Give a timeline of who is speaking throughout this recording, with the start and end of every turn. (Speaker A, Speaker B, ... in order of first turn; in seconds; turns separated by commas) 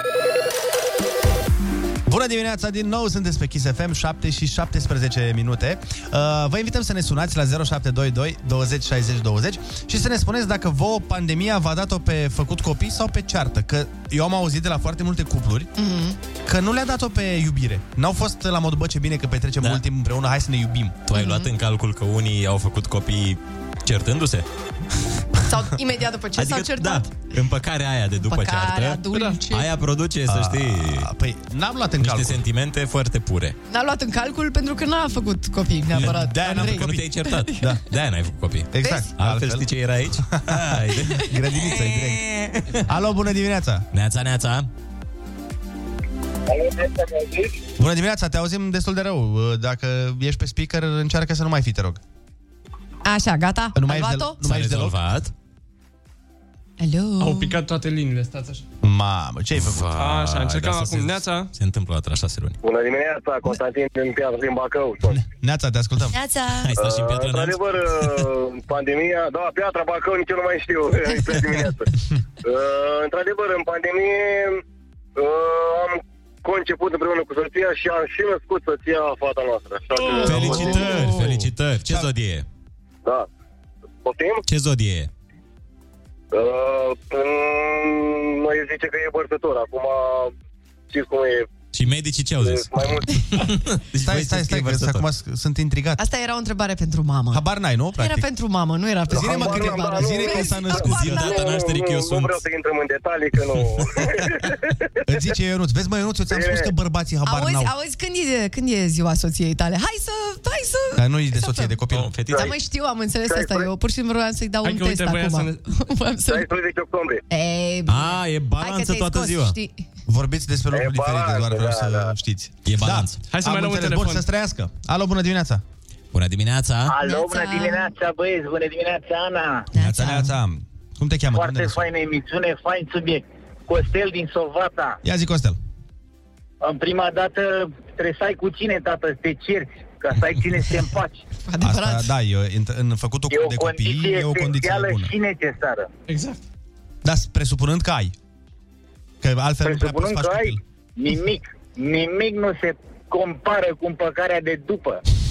Speaker A: 2.1-15.7, Speaker B: 15.8-16.2, Speaker A: 16.4-21.0, Speaker C: 21.1-24.4, Speaker B: 21.1-21.5, Speaker B: 25.5-27.2, Speaker C: 26.3-31.1, Speaker B: 28.2-29.7, Speaker D: 29.1-29.4, Speaker A: 30.3-32.4, Speaker C: 32.0-33.5, Speaker B: 33.7-37.7, Speaker C: 35.9-42.8, Speaker A: 36.0-37.8, Speaker A: 38.7-43.9, Speaker B: 38.8-39.1, Speaker C: 43.9-44.7, Speaker E: 46.5-47.5, Speaker A: 47.8-52.0, Speaker B: 53.0-54.4, Speaker A: 53.7-55.0, Speaker C: 54.4-55.3, Speaker B: 56.8-57.6, Speaker D: 57.2-58.6, Speaker A: 58.8-59.9, Speaker C: 59.5-62.6, Speaker D: 60.0-61.5, Speaker E: 62.6-65.2, Speaker A: 65.1-66.2, Speaker B: 66.1-66.7, Speaker C: 66.6-68.3, Speaker E: 66.8-71.9, Speaker E: 72.4-74.6, Speaker E: 75.2-80.7, Speaker D: 80.0-81.2, Speaker C: 80.2-82.5, Speaker A: 80.2-82.1, Speaker E: 84.0-84.4, Speaker C: 84.5-85.1, Speaker E: 86.3-90.3, Speaker E: 90.9-91.5, Speaker C: 91.7-95.1, Speaker E: 92.4-93.1, Speaker A: 94.0-96.0, Speaker B: 96.0-97.4, Speaker A: 97.3-98.3, Speaker B: 98.0-101.5, Speaker A: 99.1-101.2, Speaker E: 99.1-104.5, Speaker C: 100.8-102.4, Speaker C: 103.5-104.2, Speaker A: 105.0-107.7, Speaker E: 106.3-106.7, Speaker B: 107.2-111.7, Speaker A: 111.0-112.1, Speaker C: 111.9-112.5, Speaker B: 112.3-116.5, Speaker E: 113.3-113.7, Speaker D: 114.6-115.7, Speaker E: 116.3-117.2, Speaker B: 117.3-119.8, Speaker C: 117.9-119.6, Speaker A: 120.1-125.6, Speaker E: 120.7-122.1, Speaker C: 122.6-123.2, Speaker D: 123.3-124.2, Speaker C: 126.1-127.0, Speaker F: 126.9-129.7, Speaker B: 127.0-127.9, Speaker B: 129.7-130.3, Speaker A: 129.7-131.9, Speaker F: 131.3-135.0, Speaker A: 135.0-135.6, Speaker F: 136.6-141.2, Speaker B: 141.4-142.1, Speaker A: 141.6-145.1, Speaker F: 143.3-145.9, Speaker D: 146.1-146.4, Speaker A: 147.0-148.1, Speaker A: 149.2-150.6, Speaker F: 149.6-155.0